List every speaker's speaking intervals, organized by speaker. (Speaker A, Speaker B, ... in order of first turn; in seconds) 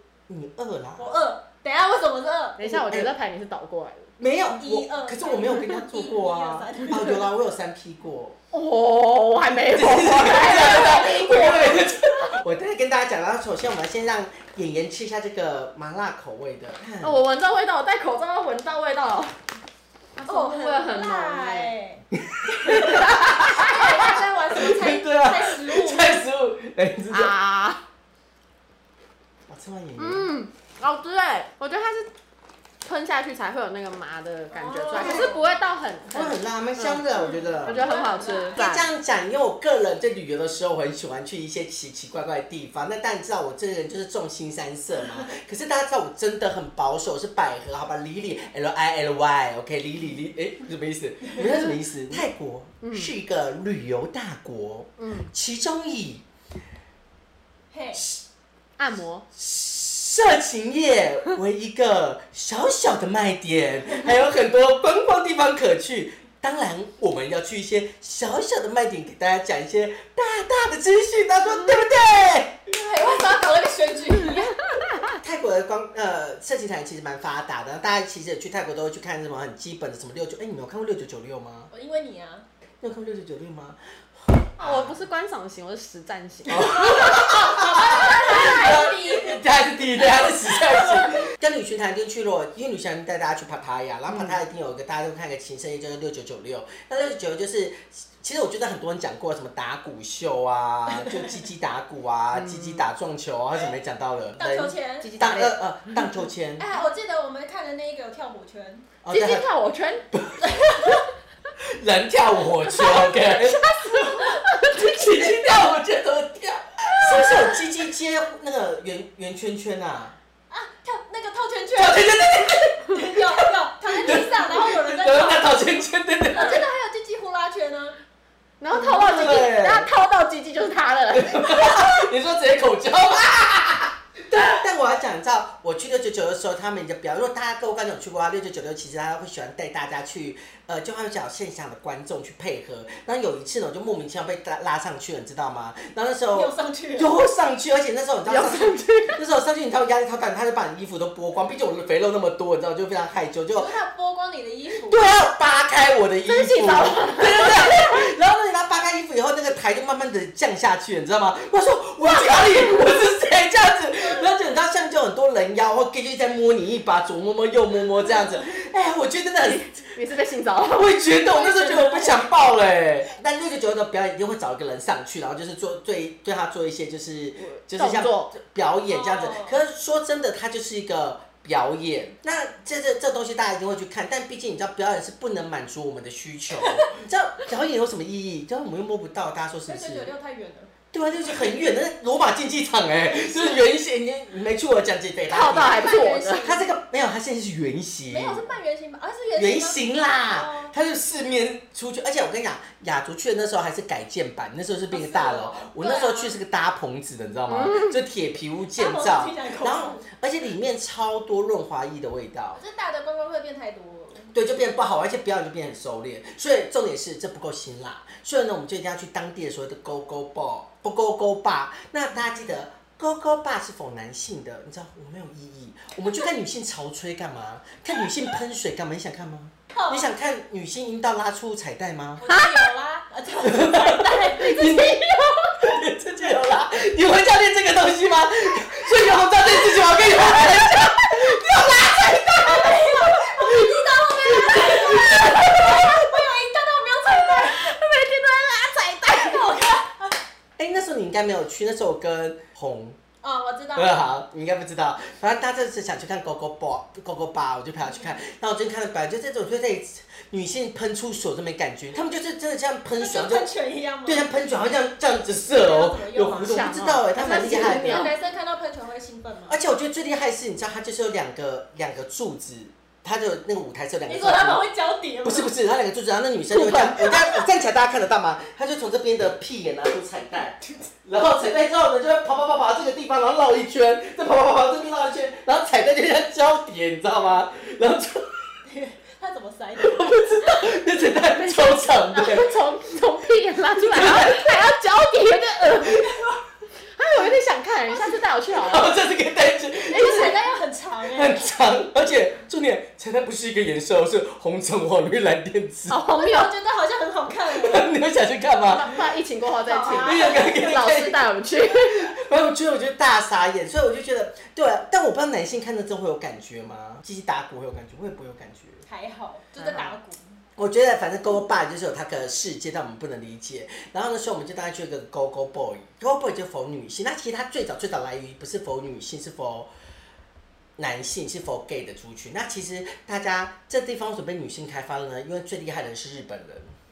Speaker A: 0.3-1.1, 2.6-3.1, 4.2-8.3, 9.7-17.2, 22.1-27.3, 29.5-30.3, 34.9-35.4, 36.1-38.0, 38.5-56.2, 57.9-58.2, 59.3-72.6, 75.0-81.7, 82.8-85.0, 86.5-106.7, 109.0-109.5, 110.1-110.9, 111.6-120.1, 121.8-126.6, 128.7-129.9, 131.1-153.7, 154.7-169.9, 170.7-190.1, 190.9-198.5, 199.3-212.6, 214.3-232.2, 233.4-235.0, 235.6-245.9, 250.6-253.0, 253.7-263.5, 264.0-268.1, 269.5-274.6, 275.2-288.4, 289.8-292.5, 293.8-294.6, 298.5-300.4, 301.1-306.0, 307.5-309.0, 309.9-318.8, 320.6-329.7, 330.8-336.7
Speaker B: 1.0-2.6, 4.5-7.2, 10.4-12.3, 20.3-22.0, 23.3-26.2, 34.5-35.5, 37.1-38.6, 51.2-51.5, 57.7-58.0, 72.7-74.5, 81.7-82.4, 87.0-91.1, 104.4-105.1, 106.6-109.0, 110.4-111.0, 120.5-127.9, 146.3-147.1, 153.5-155.0, 171.4-172.2, 178.9-179.6, 186.6-186.9, 189.7-190.7, 195.5-196.7, 198.1-200.7, 204.9-206.3, 208.8-210.0, 212.6-214.3, 229.7-230.0, 232.2-235.6, 239.8-240.8, 242.3-247.8, 249.0-250.1, 253.2-254.0, 263.0-264.3, 265.5-269.6, 274.1-275.5, 288.6-290.7, 295.9-296.3, 299.9-301.4, 306.1-307.9, 309.6-310.9, 318.9-320.2
Speaker C: 2.6-4.1, 8.5-11.8, 17.0-19.4, 20.1-21.7, 22.6-23.7, 27.1-27.8, 30.0-32.1, 32.8-37.1, 37.6-38.9, 51.4-51.7, 52.8-53.1, 55.0-55.3, 58.8-59.2, 74.1-75.2, 84.6-88.0, 94.1-94.4, 102.3-102.8, 105.0-106.0, 109.1-110.1, 112.8-113.1, 114.2-115.1, 117.0-117.6, 128.6-132.1, 148.3-149.2, 156.2-157.9, 169.9-171.0, 177.4-178.3, 195.3-196.5, 207.5-208.0, 232.3-232.5, 247.2-249.4, 266.4-268.1, 276.5-277.2, 291.4-296.1, 297.0-298.9, 299.9-300.3, 305.9-306.5, 308.7-312.1, 319.6-319.9